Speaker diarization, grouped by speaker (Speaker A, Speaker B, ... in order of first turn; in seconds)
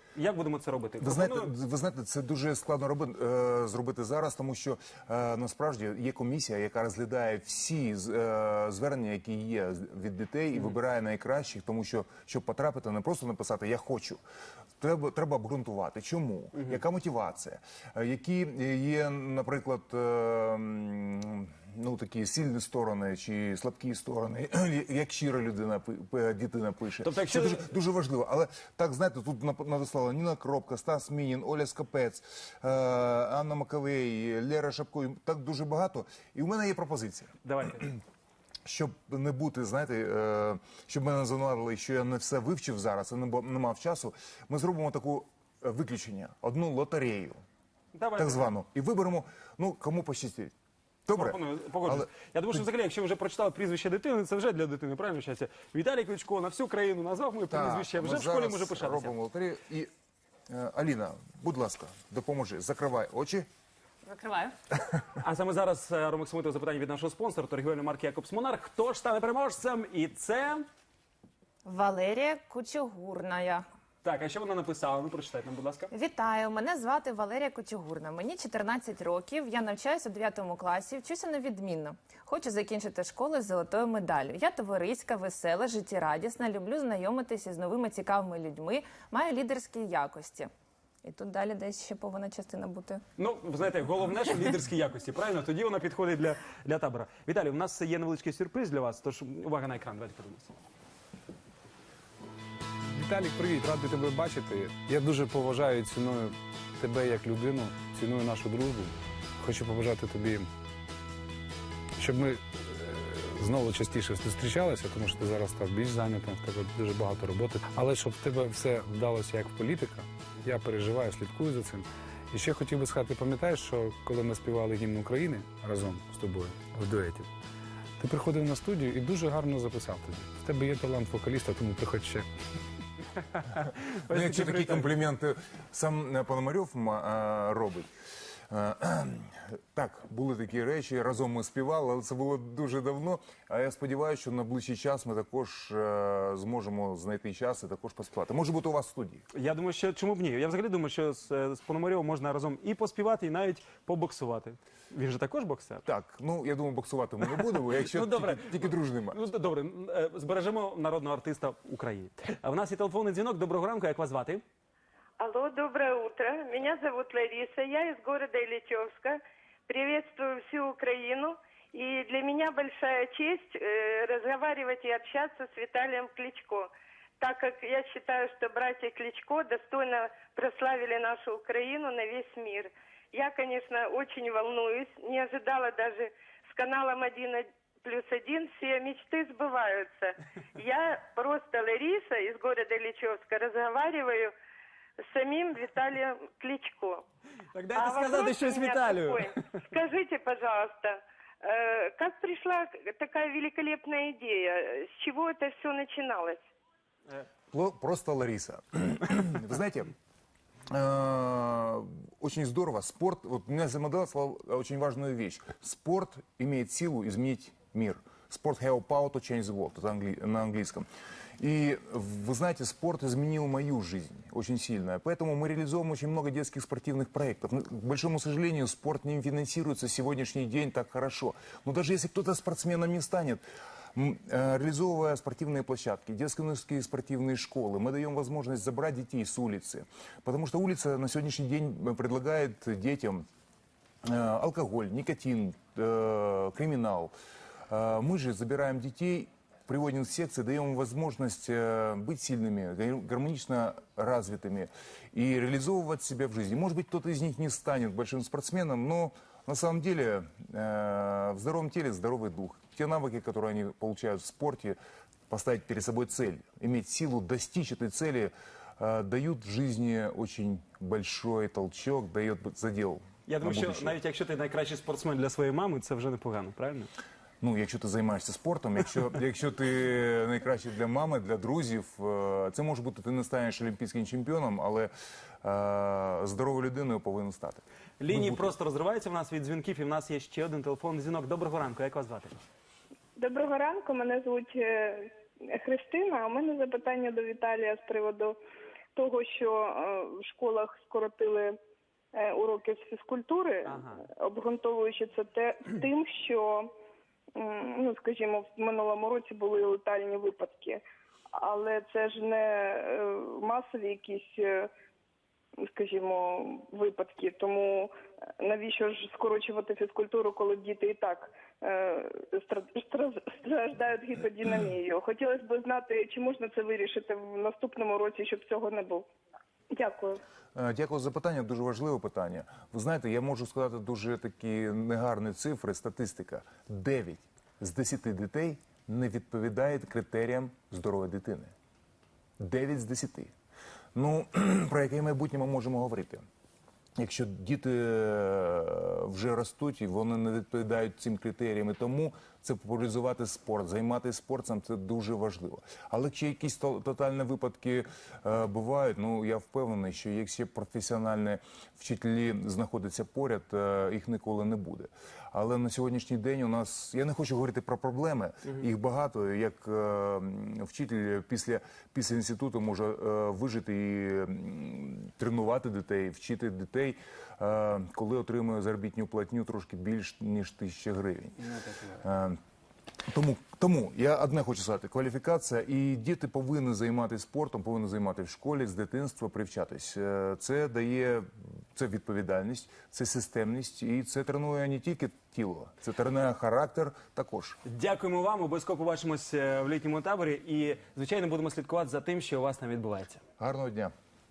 Speaker A: 0.1-1.5, 27.0-27.7, 37.4-37.9, 47.9-48.5, 51.1-59.1, 65.2-70.6, 74.0-75.9, 93.2-100.5, 134.1-134.9, 149.3-155.8, 157.4-164.4, 197.5-199.5, 273.3-276.9, 288.0-292.4, 303.6-304.0, 381.4-382.0, 397.6-403.2
Speaker B: 1.0-14.2, 14.8-37.3, 38.6-47.4, 48.2-50.5, 51.0-52.1, 57.5-59.9, 60.5-63.5, 134.1-137.9, 138.5-149.2, 155.8-159.2, 207.5-209.9, 210.7-220.8, 221.4-233.4, 233.9-243.2, 244.0-247.1, 247.7-264.8, 265.3-274.0, 277.4-284.9, 285.4-288.5, 330.5-341.5, 342.4-343.3, 343.9-346.2, 347.0-381.4, 382.0-382.4, 383.1-397.6, 403.4-403.9
Speaker C: 64.0-64.7, 71.6-73.6, 75.9-90.5, 91.0-93.0
Speaker D: 102.9-110.5, 112.0-127.3, 128.0-132.3
Speaker E: 165.2-176.7, 177.2-194.3, 195.0-197.0, 197.7-206.4
Speaker F: 293.1-298.4, 298.9-301.6, 302.1-306.7, 307.3-310.8, 311.3-314.7, 315.6-329.1, 329.7-330.2